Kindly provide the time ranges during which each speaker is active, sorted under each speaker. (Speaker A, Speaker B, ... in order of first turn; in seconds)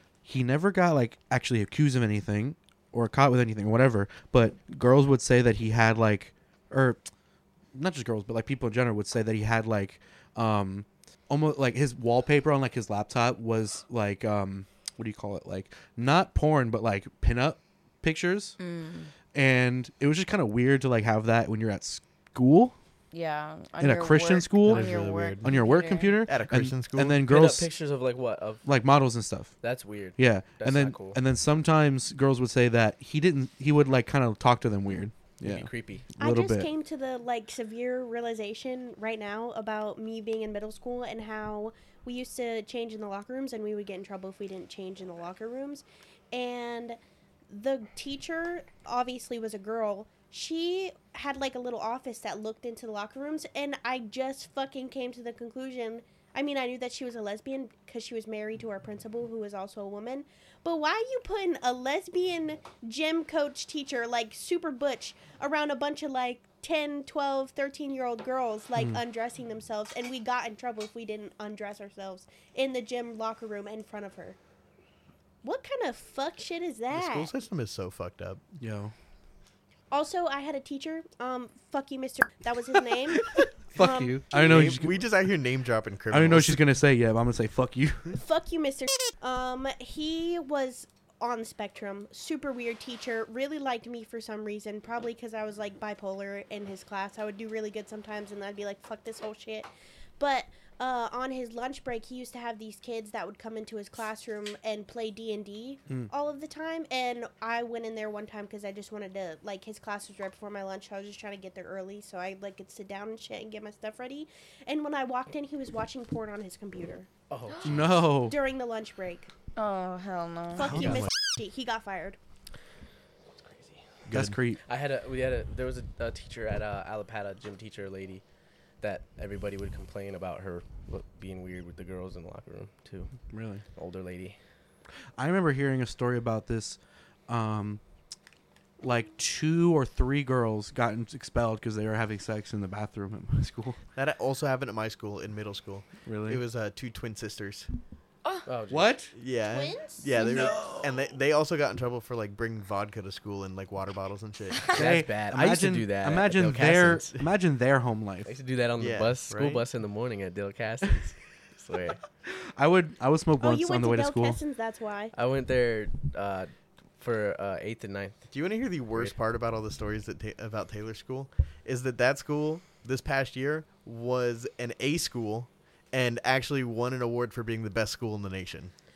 Speaker A: 0.2-7.0, 7.7-18.6, 19.3-22.8, 23.8-27.7, 28.6-29.5, 30.2-36.7, 68.8-69.0, 78.6-78.9, 83.4-85.0, 86.1-88.2, 117.7-118.4, 124.1-124.6, 133.3-133.6, 135.2-137.8, 138.8-143.8, 146.1-146.4, 148.7-149.1, 150.2-151.1, 154.7-158.3, 162.3-164.4
Speaker B: 18.6-19.1, 23.1-26.2, 119.6-121.0
Speaker C: 24.6-25.6, 26.2-27.2, 76.9-78.4, 84.3-86.6, 120.6-121.1, 124.1-124.4, 144.0-147.7, 149.1-154.7, 158.8-159.6, 168.3-178.7
Speaker D: 27.2-28.7, 29.6-31.2, 35.4-36.1, 117.3-117.9, 123.5-123.8, 124.7-128.2, 128.8-133.1, 133.8-134.4, 148.5-148.9, 154.7-157.1, 158.3-162.0, 165.2-168.2
Speaker E: 36.2-47.0, 47.5-74.4, 75.4-77.3, 79.9-84.7, 88.2-117.1, 117.6-119.3, 120.5-122.2, 149.5-150.7, 163.4-165.1